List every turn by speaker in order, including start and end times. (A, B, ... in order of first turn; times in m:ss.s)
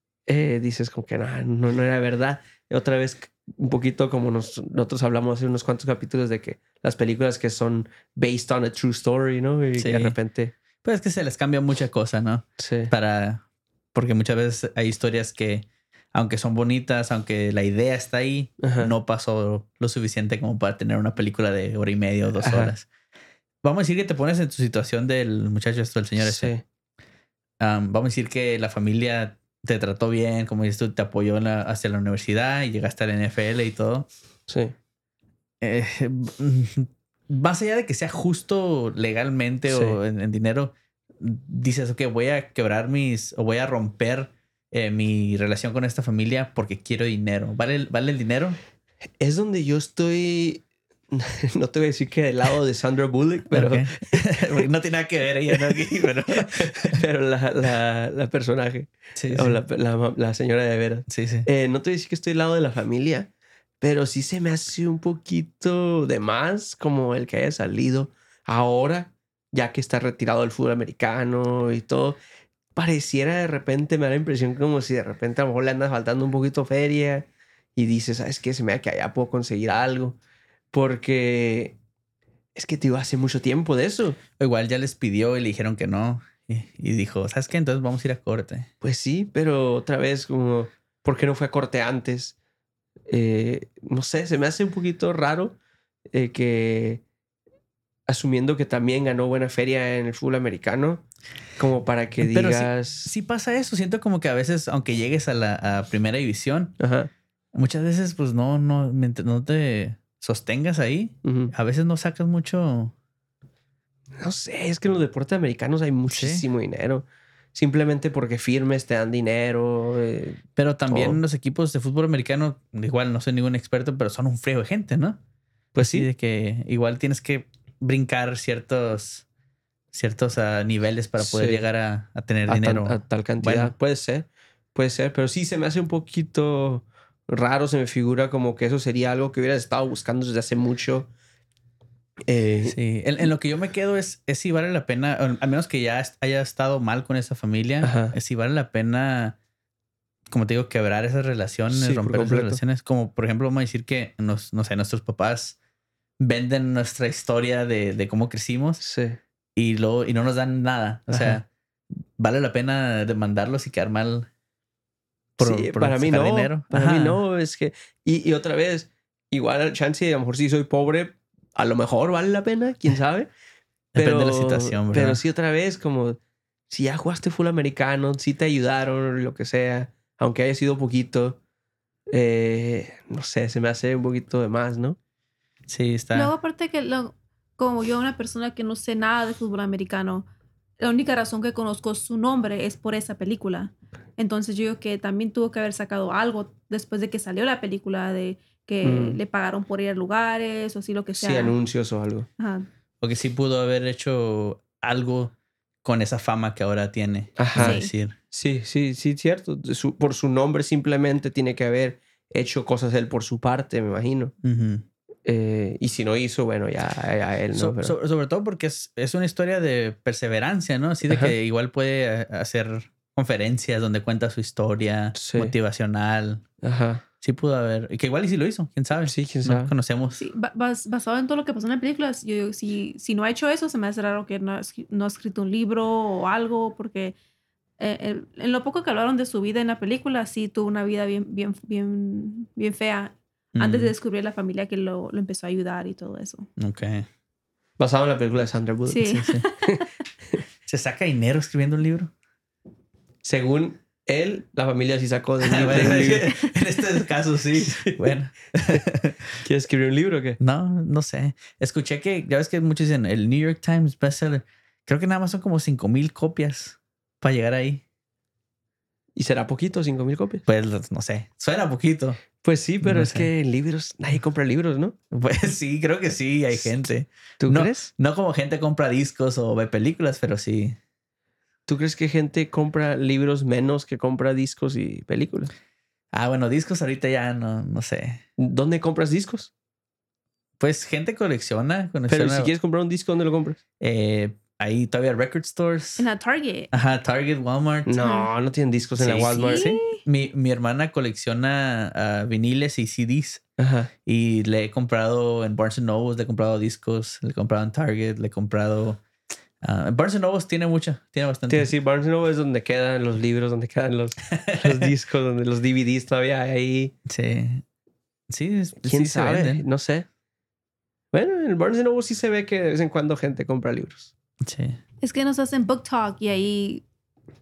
0:00.3-0:10.5 A
0:09.8-0:10.2 B
0:10.8-0:13.4 B
0:12.6-0:12.9 A
0:13.9-0:22.9 B
0:18.6-0:18.9 A
0:22.4-0:22.7 A
0:23.6-0:26.5 B
0:26.2-0:26.6 A
0:27.6-0:34.1 B
0:34.5-0:34.7 A
0:35.6-0:48.6 B
0:39.7-0:40.0 A
0:49.2-0:54.4 A
0:53.5-0:57.0 B
0:55.5-0:55.8 A
0:56.3-1:03.3 A
0:59.1-0:59.6 B
1:01.1-1:01.5 B
1:03.8-1:12.2 A
1:12.7-1:20.2 A
1:20.7-1:21.8 A
1:22.5-1:24.2 A
1:24.4-1:28.7 B
1:28.8-1:32.4 A
1:33.1-1:35.6 A
1:36.1-1:37.0 A
1:38.1-1:41.0 A
1:41.6-1:43.1 A
1:42.2-1:46.8 B
1:46.8-1:47.1 A
1:47.5-1:52.9 B
1:51.2-1:51.5 A
1:54.2-2:01.2 A
1:56.1-1:56.4 B
2:00.6-2:05.2 B
2:05.7-2:06.1 A
2:05.8-2:09.2 B
2:09.9-2:13.7 B
2:11.2-2:11.6 A
2:12.5-2:21.1 A
2:22.3-2:22.8 A
2:22.6-2:29.4 B
2:27.8-2:28.1 A
2:30.3-2:35.6 B
2:31.7-2:32.6 A
2:36.2-2:38.8 B
2:38.8-2:39.2 A
2:39.6-2:41.4 B
2:41.1-2:41.4 A
2:42.2-2:44.3 B
2:45.4-2:53.3 A
2:45.4-2:47.2 B
2:53.9-2:55.2 B
2:54.0-3:01.4 A
3:02.1-3:05.0 A
3:05.7-3:06.3 B
3:06.1-3:10.3 C
3:10.8-3:21.6 C
3:18.8-3:19.2 A
3:21.2-3:22.3 A
3:22.4-3:22.6 C
3:23.0-3:28.1 B
3:27.4-3:27.8 A
3:27.5-3:27.9 C
3:28.3-3:34.3 A
3:34.4-3:34.8 B
3:35.2-3:37.9 A
3:37.5-3:46.5 B
3:41.0-3:41.3 A
3:45.1-3:45.5 A
3:46.6-3:47.0 A
3:47.2-3:50.2 B
3:49.0-3:49.7 A
3:50.2-3:57.1 C
3:57.8-4:06.5 C
4:03.6-4:03.9 B
4:06.6-4:07.1 B
4:07.8-4:09.1 A
4:08.9-4:09.9 C
4:09.1-4:09.4 B
4:10.6-4:12.1 B
4:13.2-4:16.3 A
4:15.4-4:19.4 B
4:17.5-4:18.1 A
4:19.4-4:20.4 A
4:20.4-4:27.8 B
4:29.2-4:30.4 A
4:30.5-4:32.2 B
4:32.4-4:35.0 A
4:32.8-4:33.3 B
4:35.1-4:40.8 B
4:37.4-4:37.9 A
4:41.7-4:45.5 A
4:46.1-4:48.2 B
4:48.4-4:49.5 A
4:50.6-4:52.5 B
4:52.1-4:53.6 A
4:53.8-4:56.0 B
4:56.0-4:56.7 C
4:56.7-4:57.9 B
4:57.8-4:59.6 A
4:58.0-4:58.3 C
4:59.0-5:03.4 B
4:59.2-5:00.0 C
5:03.6-5:03.9 A
5:04.0-5:09.0 B
5:09.6-5:11.7 B
5:11.5-5:16.9 A
5:14.3-5:14.9 B
5:17.0-5:17.6 B
5:18.3-5:19.6 B
5:18.8-5:20.0 A
5:21.1-5:24.1 A
5:24.4-5:24.8 B
5:25.0-5:26.8 C